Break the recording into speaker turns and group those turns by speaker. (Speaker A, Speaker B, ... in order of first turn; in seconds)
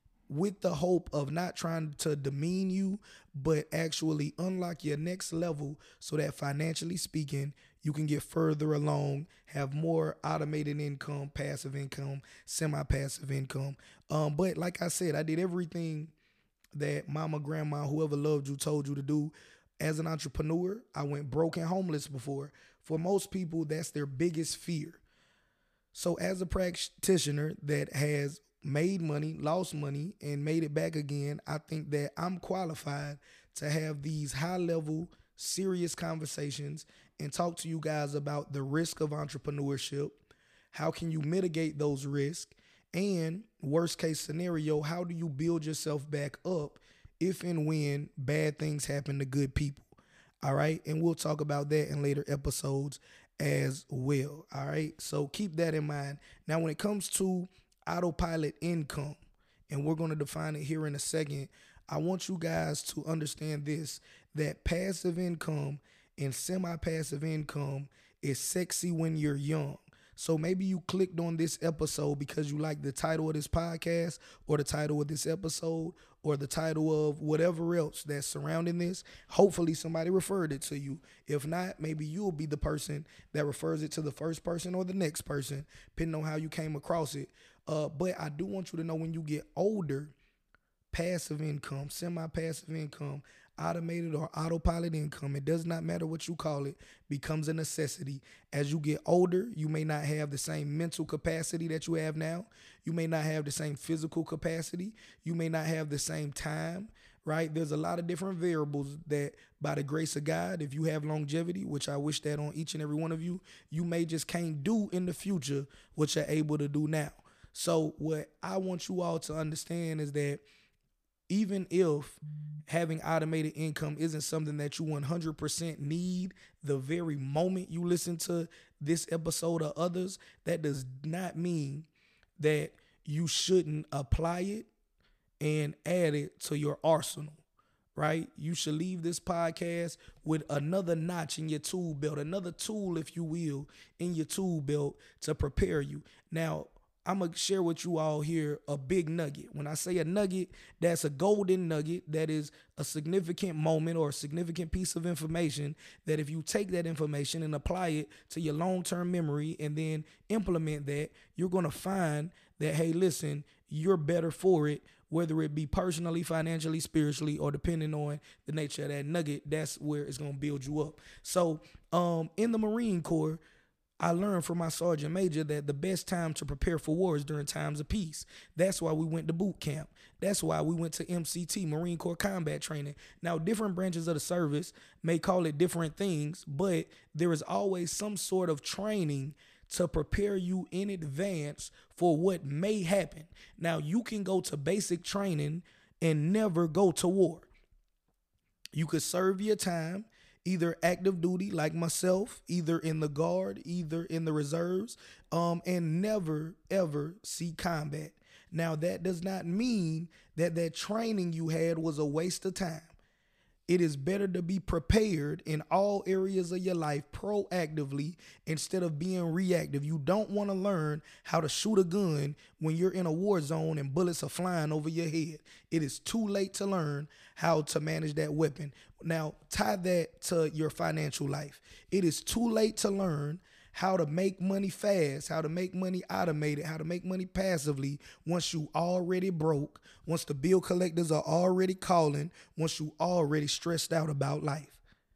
Speaker A: 0.3-16.1, 16.7-25.0, 25.9-40.2, 40.7-59.2, 59.7-90.1, 90.9-120.4, 121.3-131.9, 132.4-134.7, 135.4-137.4, 137.9-173.4, 174.0-197.5, 198.7-212.9, 213.7-244.8